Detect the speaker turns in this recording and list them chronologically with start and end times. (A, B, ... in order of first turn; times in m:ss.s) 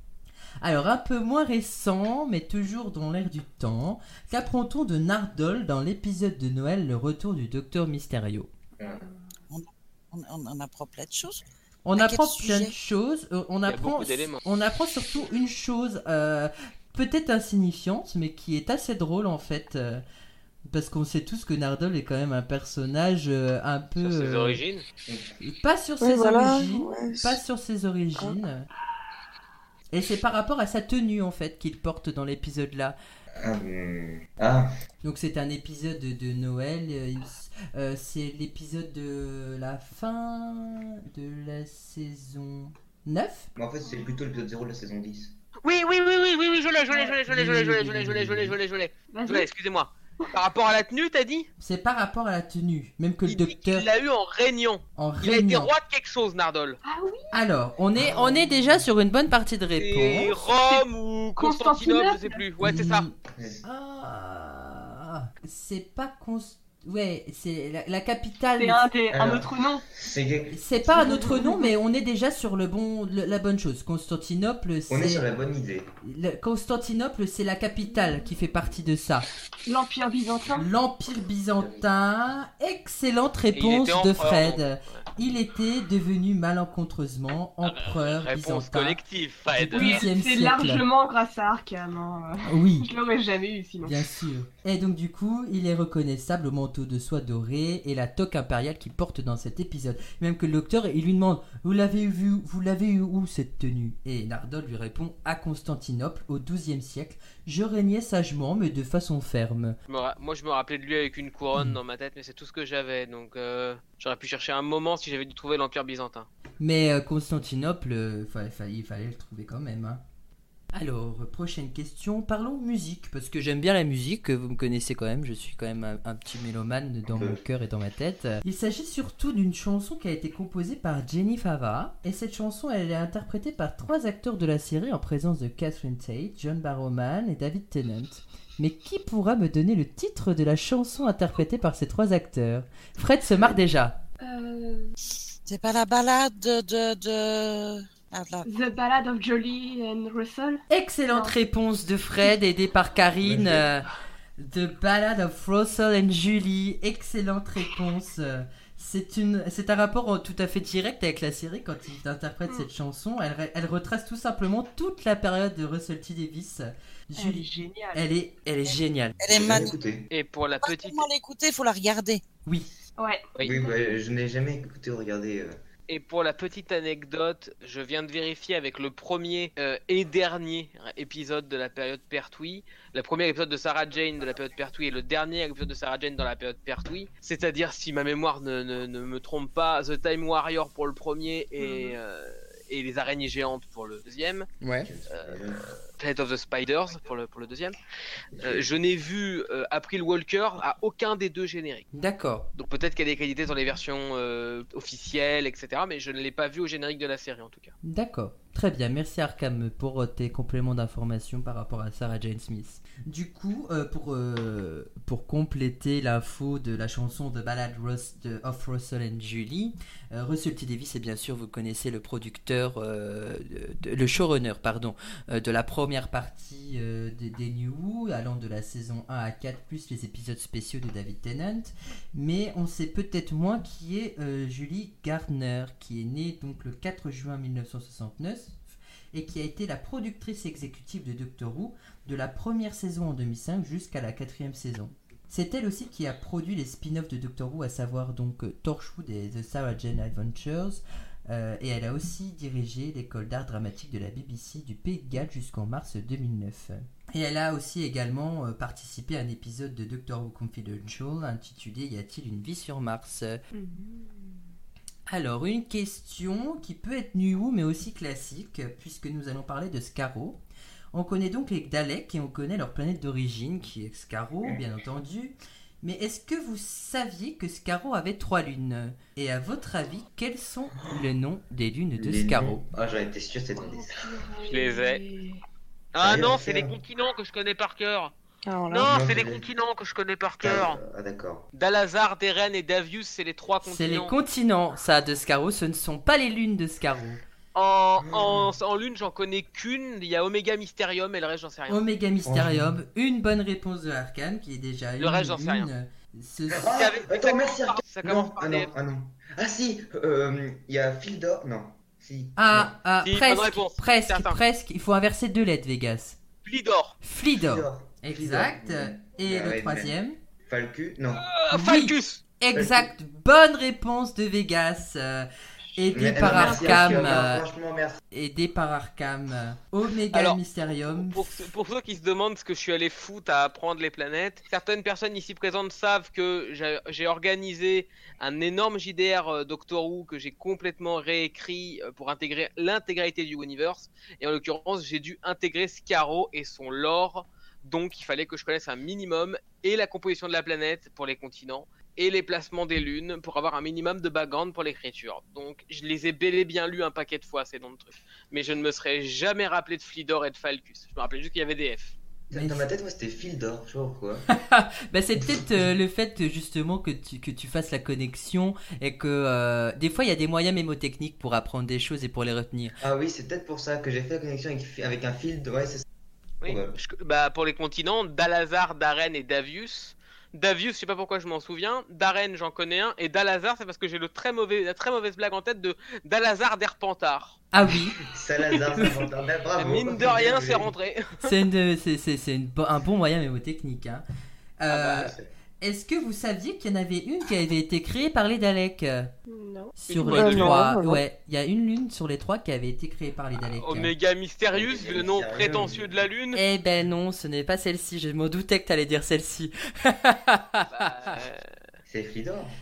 0:00.6-0:08.5 A
0:08.8-0:09.0 B
0:09.5-0:11.4 C
0:11.8-0:20.0 A
0:12.0-0:12.7 C
0:13.7-0:14.4 D
0:20.7-0:24.6 A
0:24.0-0:24.8 D
0:25.1-0:25.3 B
0:25.4-0:28.7 A
0:26.0-0:27.4 E
0:29.9-0:33.0 A
0:33.4-0:34.7 B
0:35.0-0:43.5 A
0:43.6-0:45.3 B
0:43.8-0:44.1 F
0:45.6-0:51.5 D
0:47.3-0:48.6 A
0:49.1-0:49.5 F
0:51.6-0:53.9 A
0:53.2-0:56.8 D
0:55.0-0:55.7 A
0:56.8-0:57.3 F
0:57.3-1:00.4 A
0:58.0-0:58.5 B
0:59.8-1:03.1 D
1:01.4-1:02.4 F
1:02.6-1:08.9 A
1:03.4-1:03.6 B
1:08.6-1:09.8 F
1:09.1-1:10.7 B
1:10.5-1:15.2 A
1:10.8-1:11.7 F
1:14.9-1:15.9 B
1:16.0-1:19.3 A
1:19.6-1:20.7 F
1:20.5-1:29.0 A
1:23.5-1:25.0 D
1:27.6-1:30.0 D
1:29.5-1:30.8 A
1:29.7-1:34.0 F
1:32.4-1:32.9 A
1:33.8-1:49.8 A
1:49.9-1:56.3 D
1:56.6-2:00.0 A
2:00.7-2:24.0 A
2:07.1-2:07.4 B
2:24.2-2:24.9 F
2:25.4-2:28.5 C
2:28.4-2:31.3 F
2:30.7-2:49.2 A
2:33.2-2:33.7 B
2:47.2-2:48.0 F
2:49.2-2:49.7 C
2:49.3-2:50.1 B
2:50.1-2:51.1 D
2:50.6-2:52.2 C
2:53.0-2:54.0 F
2:53.4-2:55.6 B
2:55.9-3:14.5 D
3:11.6-3:12.0 F
3:14.6-3:14.9 A
3:14.8-3:15.8 B
3:15.1-3:17.8 D
3:18.3-3:18.7 B
3:18.4-3:21.9 D
3:21.9-3:22.5 A
3:22.5-3:27.7 D
3:27.8-3:58.6 A
3:59.1-4:23.4 A
4:23.5-4:24.4 F
4:25.1-4:30.4 A
4:30.9-4:42.6 A
4:42.0-4:44.2 B
4:43.6-4:45.4 F
4:44.4-4:45.0 D
4:45.9-4:48.1 D
4:46.0-4:46.7 B
4:48.4-4:48.9 E
4:48.7-4:50.8 D
4:48.8-4:49.4 B
4:50.4-4:51.4 B
4:51.5-4:54.1 D
4:53.6-4:57.2 A
4:57.5-5:01.8 D
4:58.0-4:58.5 B
5:01.7-5:06.7 A
5:02.2-5:02.8 B
5:05.0-5:05.7 D
5:06.5-5:12.7 B
5:06.7-5:08.7 D
5:12.4-5:16.2 A
5:13.0-5:14.4 D
5:16.4-5:17.0 D
5:17.0-5:20.2 A
5:17.4-5:19.9 B
5:20.5-5:21.2 B
5:21.1-5:22.2 D
5:21.5-5:27.4 A
5:22.5-5:22.9 B
5:25.9-5:28.0 B
5:26.2-5:27.2 F
5:26.4-5:26.7 D
5:28.1-5:31.4 A
5:30.1-6:02.0 D
6:02.3-6:04.2 B
6:02.3-6:02.7 A
6:04.3-6:12.7 A
6:12.8-6:15.8 B
6:16.4-6:27.4 D
6:16.4-6:16.8 B
6:27.5-6:28.0 A
6:28.0-6:30.7 B
6:29.6-6:31.3 D
6:31.2-6:34.0 A
6:34.6-6:39.1 A
6:34.7-6:35.1 D
6:34.9-6:35.3 B
6:39.3-6:39.8 F
6:39.8-6:43.9 A
6:39.9-6:40.6 D
6:40.1-6:41.0 E
6:43.5-6:46.4 D
6:44.5-6:46.0 B
6:46.3-6:50.9 A
6:50.7-6:51.4 D
6:51.8-6:52.5 B